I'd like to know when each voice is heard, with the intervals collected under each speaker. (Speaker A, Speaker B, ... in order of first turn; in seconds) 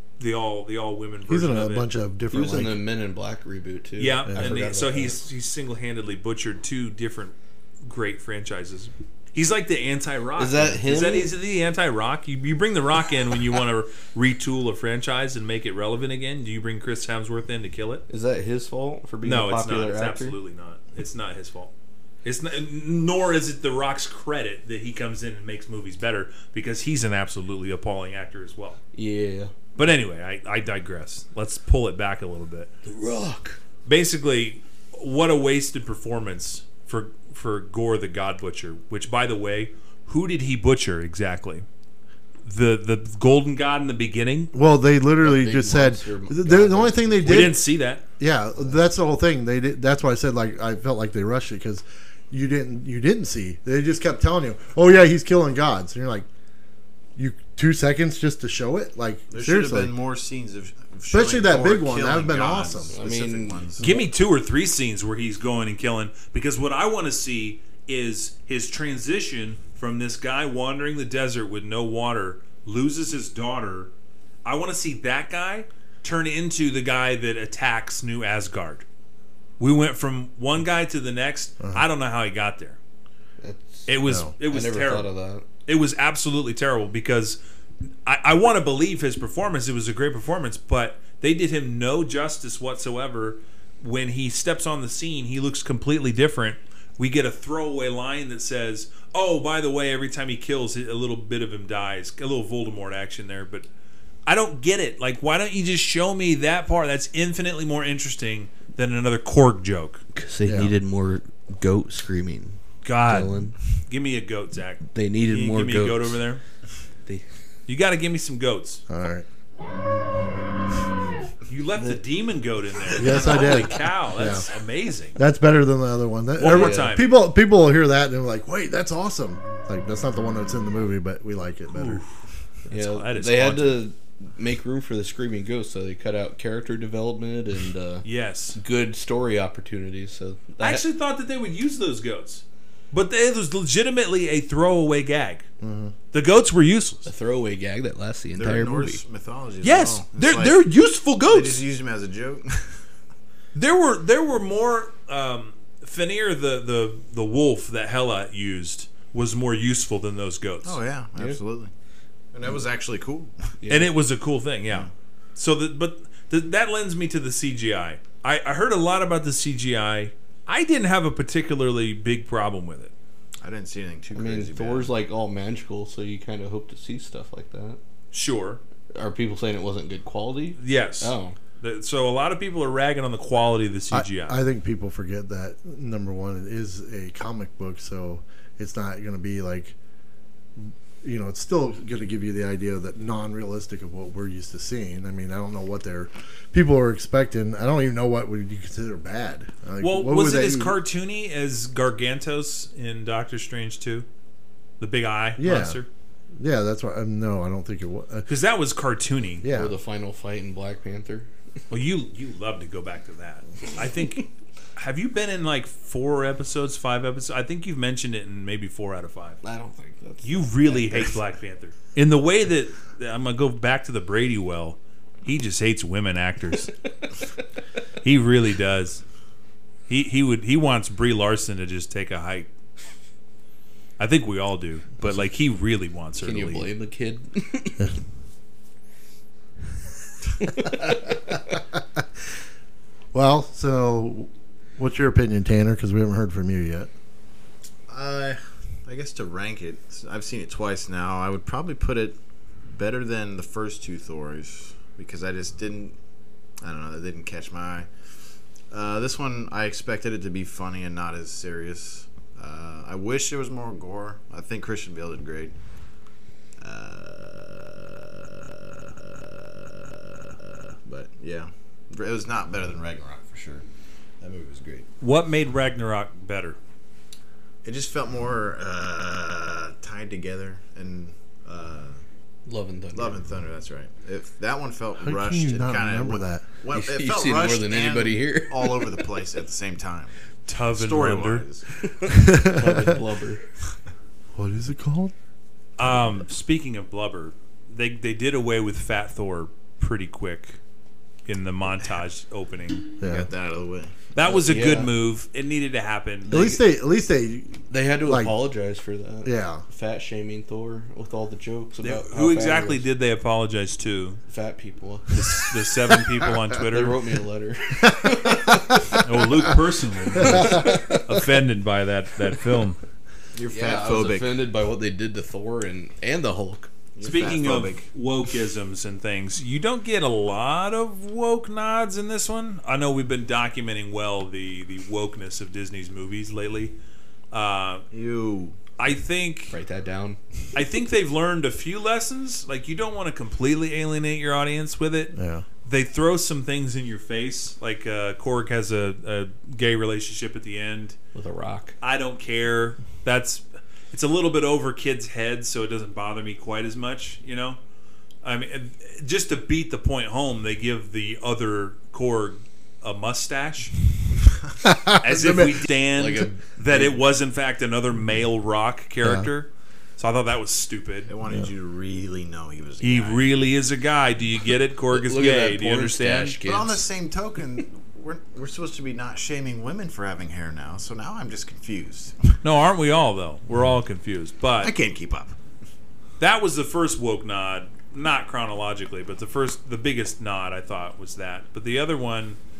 Speaker A: 0.2-1.9, 4.0-7.3, 7.8-18.1, 19.2-21.7, 22.2-28.8, 29.8-32.7, 33.9-41.6, 42.5-44.5, 47.2-48.0, 63.8-73.9, 74.5-78.8, 79.6-82.8, 83.9-85.1, 85.7-87.4, 88.1-103.7, 104.3-110.0, 112.8-116.4, 117.7-118.8, 121.5-125.2, 126.4-127.1, 131.7-132.1, 132.7-133.8, 138.1-138.6, 140.6-145.4, 146.1-147.1, 149.6-151.6, 153.5-160.8, 163.7-172.9, 178.1-178.6, 180.6-184.4, 199.8-204.1, 204.8-205.9, 208.3-209.4, 211.7-219.4, 220.2-226.7, 228.0-229.0, 229.9-232.5, 234.0-236.7, 275.0-276.6, 290.5-291.5, 295.8-300.6, 301.3-302.9, 304.1-306.5, 311.8-314.2, 315.1-317.0, 318.9-322.8, 327.0-336.8, 337.3-337.9, 338.8-339.6, 340.5-345.1, 345.6-351.0, 351.8-357.6, 358.2-363.8, 365.0-371.1, 372.8-376.4, 382.4-384.8, 386.2-392.4
Speaker B: 1.3-2.8, 4.3-4.8, 44.5-47.6, 48.2-56.3, 57.2-60.0, 61.1-63.0, 84.1-84.3, 110.5-110.7, 118.9-119.3, 122.9-124.5, 125.2-132.0, 145.6-145.9, 183.9-189.8, 190.6-200.8, 205.4-205.8, 206.4-208.3, 209.4-209.8, 241.7-242.0, 243.1-246.9, 285.0-286.5, 292.1-292.9, 294.4-295.1, 303.0-303.3, 306.3-308.4, 309.2-309.6, 317.9-318.8, 345.1-345.4, 364.6-365.6, 369.0-369.3
Speaker C: 2.3-5.2, 10.4-11.3, 18.1-20.4, 28.9-29.5, 32.8-33.6, 45.2-47.5, 62.9-64.0, 83.4-85.5, 110.2-113.6, 114.9-116.2, 126.4-126.9, 132.7-140.8, 147.1-149.0, 163.6-163.9, 174.2-177.8, 178.9-181.4, 209.5-211.3, 219.4-220.9, 236.2-237.9, 240.4-241.0, 282.5-283.2, 286.7-289.0, 291.8-293.5, 304.2-304.9, 306.3-306.6, 307.7-312.9, 314.3-315.5, 316.6-319.0, 320.2-321.2, 323.5-326.7, 339.5-340.2, 351.1-351.8, 365.9-367.0, 374.9-376.9
Speaker D: 59.3-63.9, 148.4-150.7, 151.2-152.7, 160.6-161.7, 162.3-163.3, 173.4-174.9, 247.9-256.0, 256.6-257.9, 258.7-265.6, 266.6-273.7, 274.2-274.9, 277.6-282.0, 282.9-290.1, 290.7-291.7, 303.0-303.9, 323.3-324.4, 327.0-327.9, 337.9-338.6, 371.1-373.4, 376.4-382.3, 384.6-385.4